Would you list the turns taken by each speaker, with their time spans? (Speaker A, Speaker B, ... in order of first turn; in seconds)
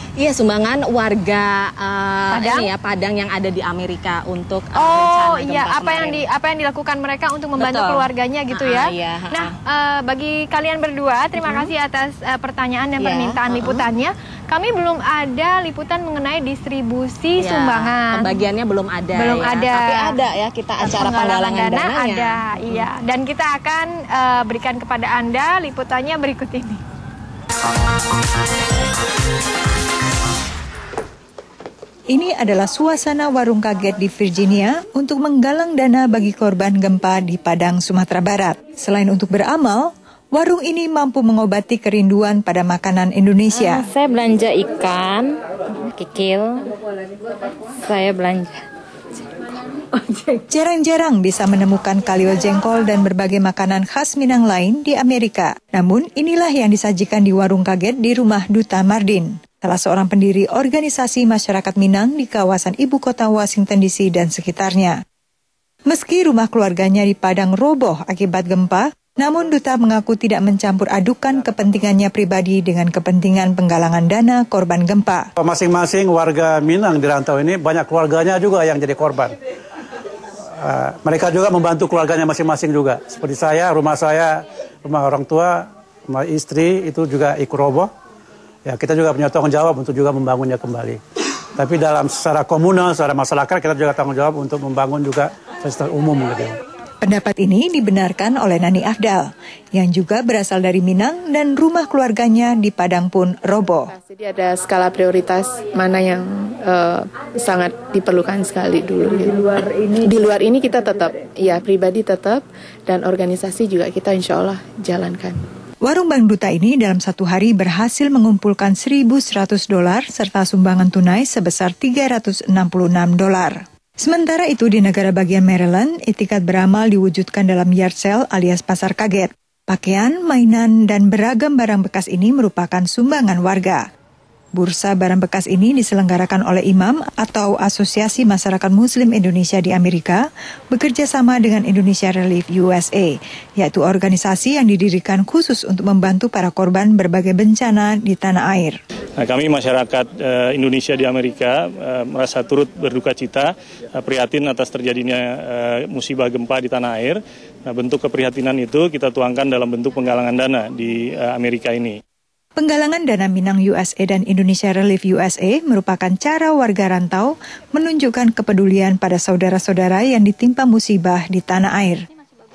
Speaker A: 0.2-6.2, 7.6-9.6, 11.4-11.7, 13.0-13.9, 17.4-22.9
Speaker B: 2.3-2.7, 4.8-18.4, 19.1-20.2, 20.8-26.8
Speaker C: 32.1-43.9, 50.5-65.0, 65.9-75.3, 97.0-103.9, 115.8-133.8, 134.6-148.8, 162.6-172.0
Speaker D: 43.5-46.7, 47.8-48.6, 50.1-50.4
Speaker E: 75.4-79.4, 80.6-87.9, 88.7-91.0, 91.6-96.6
Speaker F: 103.9-115.4
Speaker G: 149.2-162.0